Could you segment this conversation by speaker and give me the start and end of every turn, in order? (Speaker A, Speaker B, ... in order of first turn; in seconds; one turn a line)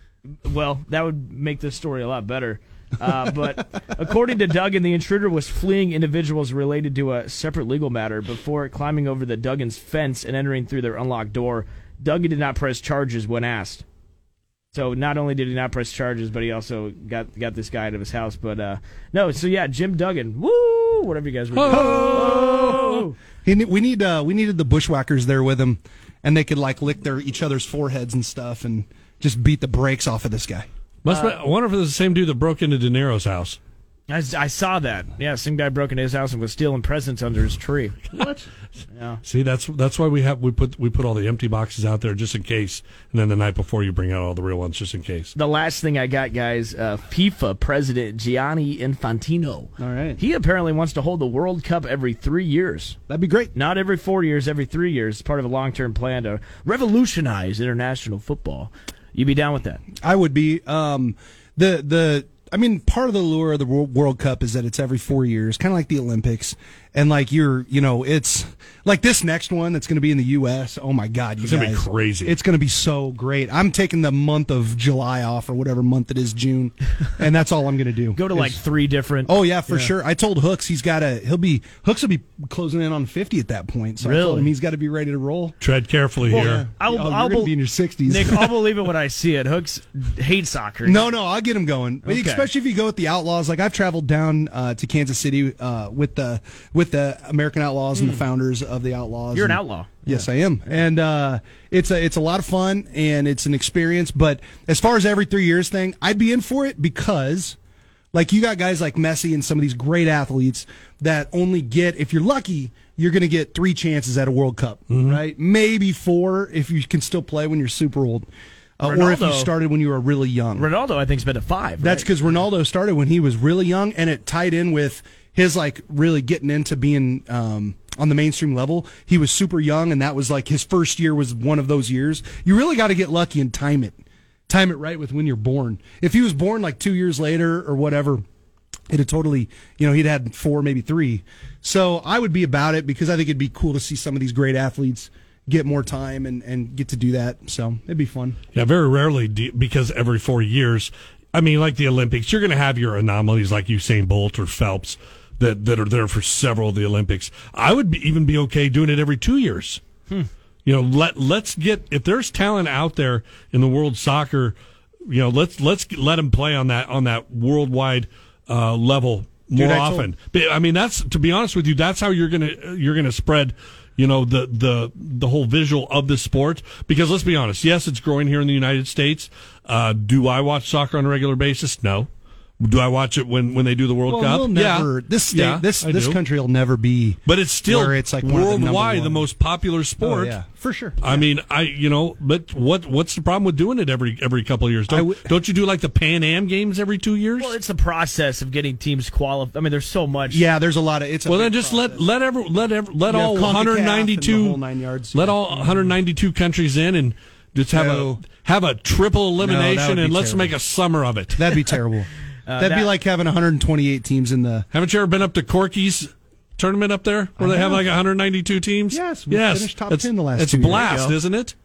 Speaker A: 0.4-13.8
Speaker A: 14.7-23.2
Speaker B: 21.5-23.0
Speaker C: 21.7-22.7
Speaker C: 23.4-30.7
Speaker B: 31.0-33.6
Speaker A: 31.1-31.4
Speaker A: 34.1-38.1
Speaker A: 38.9-39.2
Speaker B: 39.2-45.3
Speaker A: 45.4-53.0
Speaker C: 49.8-50.2
Speaker C: 53.1-53.5
Speaker A: 53.5-59.8
Speaker C: 60.0-78.6
Speaker B: 71.4-72.3
Speaker A: 78.2-79.9
Speaker C: 79.2-85.6
Speaker A: 84.0-84.5
Speaker B: 85.6-86.7
Speaker A: 86.3-87.5
Speaker C: 86.3-88.6
Speaker A: 88.0-91.1
Speaker C: 90.8-107.6
Speaker A: 92.0-92.5
Speaker A: 98.0-98.2
Speaker A: 99.3-100.3
Speaker C: 108.1-118.3
Speaker B: 114.9-115.2
Speaker C: 118.8-120.7
Speaker A: 118.8-119.5
Speaker A: 120.6-122.1
Speaker C: 121.8-138.2
Speaker C: 138.9-148.4
Speaker B: 148.5-159.8
Speaker B: 160.7-164.6
Speaker B: 165.1-182.1
Speaker C: 169.5-170.1
Speaker B: 182.6-186.2
Speaker C: 184.1-189.3
Speaker B: 187.3-190.4
Speaker C: 190.0-191.2
Speaker B: 191.0-197.6
Speaker C: 194.9-195.3
Speaker A: 197.4-200.4
Speaker C: 200.3-202.1
Speaker B: 201.3-204.6
Speaker C: 203.1-205.9
Speaker B: 205.1-211.7
Speaker C: 207.7-208.2
Speaker C: 209.4-210.6
Speaker C: 211.3-214.7
Speaker A: 212.5-212.9
Speaker B: 214.7-221.6
Speaker C: 217.4-217.9
Speaker C: 218.9-221.1
Speaker A: 220.8-221.1